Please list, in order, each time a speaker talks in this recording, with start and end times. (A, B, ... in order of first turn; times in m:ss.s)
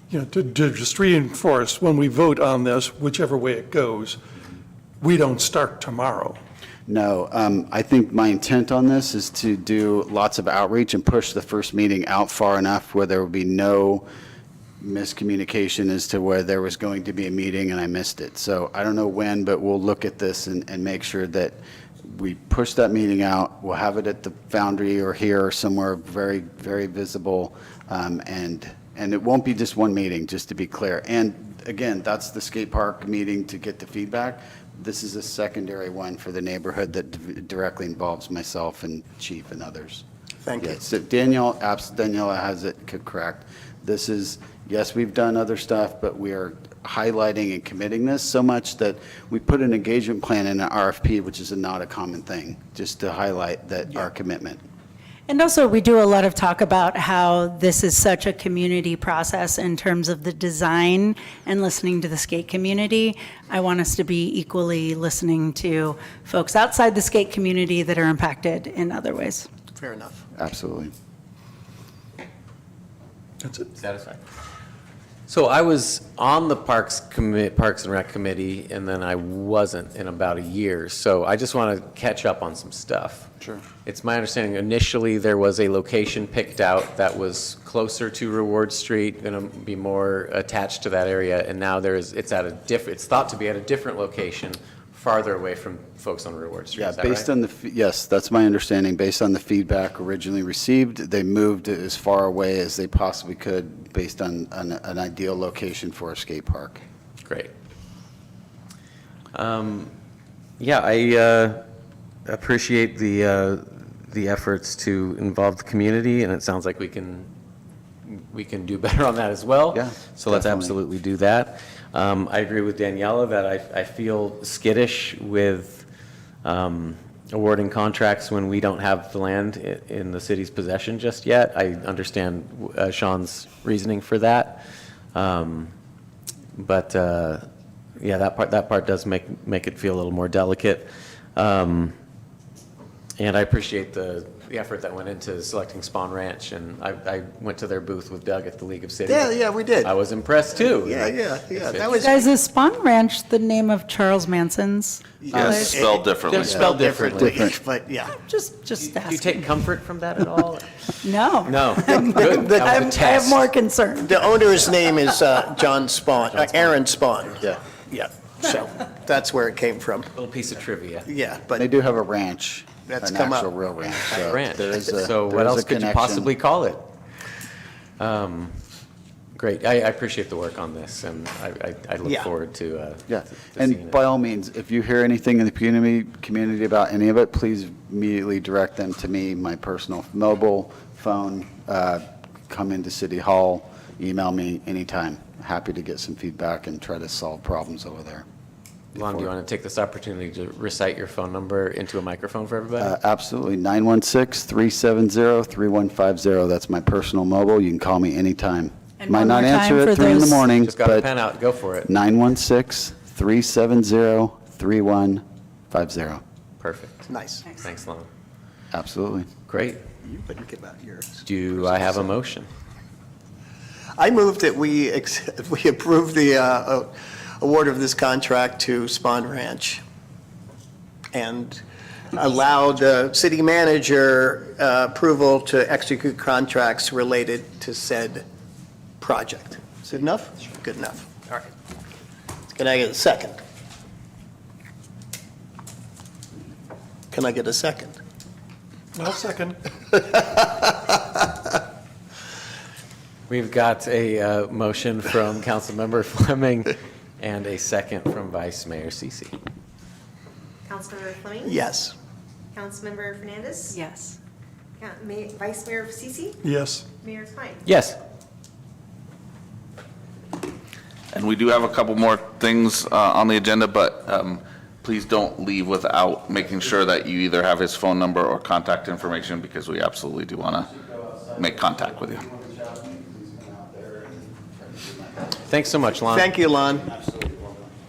0:00.1-0:04.2 A
0:05.0-0:06.3 A
0:06.9-0:14.0 B
0:14.8-0:40.0 B
0:40.4-0:40.8 C
0:40.6-0:54.6 B
0:55.3-1:09.5 D
1:09.7-1:10.2 C
1:10.4-1:10.9 B
1:13.7-1:14.2 E
1:15.3-1:23.3 E
1:23.8-1:37.3 E
1:36.8-1:46.8 B
1:47.2-1:47.5 E
1:49.3-1:49.9 E
1:50.6-1:51.6 E
1:52.2-1:57.3 E
1:58.0-2:05.8 E
1:59.7-2:00.7 B
2:06.4-2:14.6 E
2:15.1-2:15.7 E
2:16.6-2:17.4 E
2:18.0-2:21.9 E
2:23.2-2:32.1 E
2:29.1-2:29.9 C
2:30.5-2:32.3 C
2:31.9-2:35.8 D
2:35.2-2:38.2 C
2:35.3-2:35.6 B
2:35.4-2:36.4 F
2:36.3-2:37.4 E
2:36.4-2:37.5 B
2:38.1-2:39.5 D
2:38.8-2:43.5 E
2:41.0-2:44.2 D
2:44.0-2:50.1 C
2:46.3-2:46.8 E
2:50.1-2:51.1 E
2:51.0-2:51.6 C
2:51.5-2:56.3 B
2:52.9-2:53.5 C
2:54.0-2:54.3 C
2:54.2-2:56.8 E
2:58.0-2:58.6 E
2:59.3-3:04.0 E
3:02.0-3:02.3 C
3:03.1-3:18.2 B
3:18.9-3:19.3 B
3:18.9-3:22.9 E
3:22.8-3:31.1 B
3:29.0-3:30.4 D
3:30.6-3:31.9 E
3:31.8-3:36.2 B
3:36.6-3:38.1 E
3:37.1-3:37.4 C
3:38.7-3:39.3 B
3:39.5-3:39.8 E
3:40.0-3:42.1 C
3:41.2-3:42.5 E
3:44.0-3:49.8 C
3:51.1-3:51.6 C
3:52.1-3:58.2 C
3:59.0-4:01.5 C
4:02.5-4:03.4 C
4:07.1-4:08.0 C
4:08.9-4:09.6 A
4:13.3-4:19.4 E
4:20.6-4:21.6 G
4:21.4-4:21.9 C
4:22.5-4:23.8 G
4:23.7-4:24.2 D
4:24.8-4:26.4 G
4:26.4-4:26.8 A
4:27.0-4:27.6 G
4:27.6-4:28.0 E
4:31.1-4:40.7 F
4:40.6-4:45.4 B
4:41.4-4:42.2 F
4:45.4-4:46.3 E
4:46.0-4:46.8 C
4:46.7-4:47.7 B